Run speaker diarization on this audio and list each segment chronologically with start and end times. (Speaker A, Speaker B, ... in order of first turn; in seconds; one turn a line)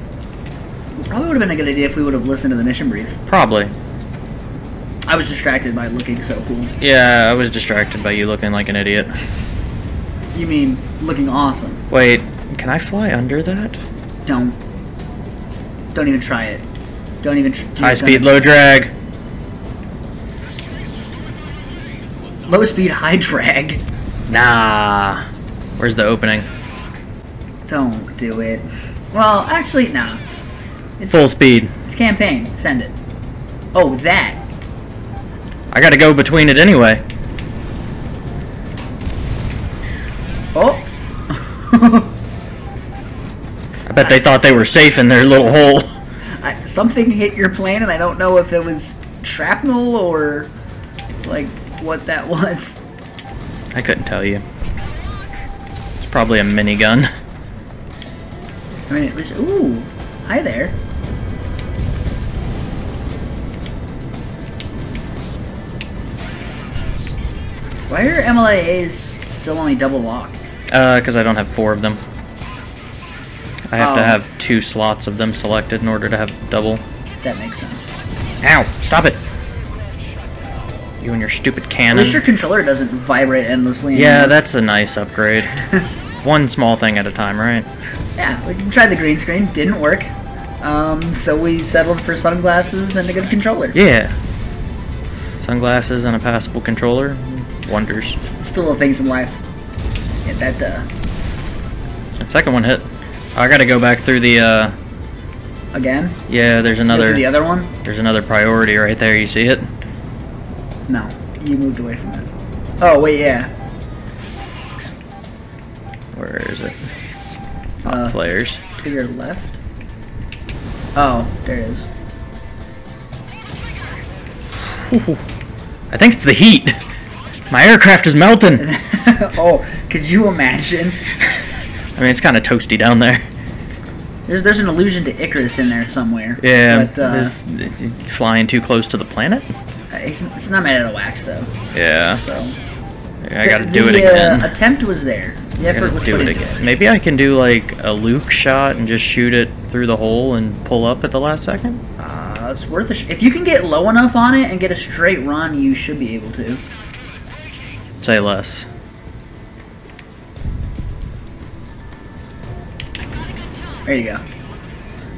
Speaker A: 0.9-3.2
Speaker B: 3.3-3.7
Speaker A: 5.1-6.7
Speaker B: 6.8-9.1
Speaker A: 10.3-11.8
Speaker B: 11.9-13.8
Speaker A: 14.2-14.6
Speaker A: 15.9-16.6
Speaker A: 17.2-18.4
Speaker B: 17.8-18.9
Speaker A: 22.5-23.8
Speaker B: 24.3-25.2
Speaker B: 25.8-26.5
Speaker A: 27.7-30.2
Speaker A: 31.0-31.2
Speaker B: 31.1-31.7
Speaker A: 31.9-32.9
Speaker A: 33.7-34.4
Speaker B: 35.7-37.0
Speaker A: 40.5-42.1
Speaker B: 43.9-46.0
Speaker A: 44.0-44.4
Speaker A: 46.4-50.5
Speaker A: 51.2-52.8
Speaker B: 53.7-54.4
Speaker B: 56.0-57.1
Speaker A: 58.9-60.8
Speaker A: 67.9-70.4
Speaker B: 70.7-72.0
Speaker B: 73.7-76.8
Speaker A: 73.8-74.2
Speaker A: 77.2-77.9
Speaker B: 78.4-79.2
Speaker B: 81.0-82.2
Speaker A: 81.9-84.4
Speaker B: 83.9-85.5
Speaker B: 86.2-87.7
Speaker A: 88.2-90.1
Speaker A: 90.6-93.8
Speaker B: 93.7-94.1
Speaker B: 95.4-98.2
Speaker A: 98.2-99.4
Speaker A: 100.2-100.9
Speaker B: 102.2-104.8
Speaker A: 105.7-106.2
Speaker B: 106.3-107.3
Speaker A: 106.9-107.7
Speaker B: 107.8-109.7
Speaker A: 110.9-112.3
Speaker A: 112.8-113.5
Speaker B: 116.1-116.9
Speaker A: 117.8-119.6
Speaker B: 117.8-118.6
Speaker A: 121.0-121.9
Speaker B: 124.6-125.2
Speaker B: 125.9-126.8
Speaker B: 127.5-128.7
Speaker A: 128.6-131.0
Speaker B: 132.0-133.2
Speaker A: 134.3-137.4
Speaker B: 136.4-139.5
Speaker A: 139.9-141.5
Speaker B: 141.7-142.2
Speaker A: 142.1-142.6
Speaker B: 143.2-144.6
Speaker A: 143.4-146.6
Speaker B: 145.7-151.8
Speaker A: 152.0-156.6
Speaker B: 158.0-158.7
Speaker A: 163.9-164.2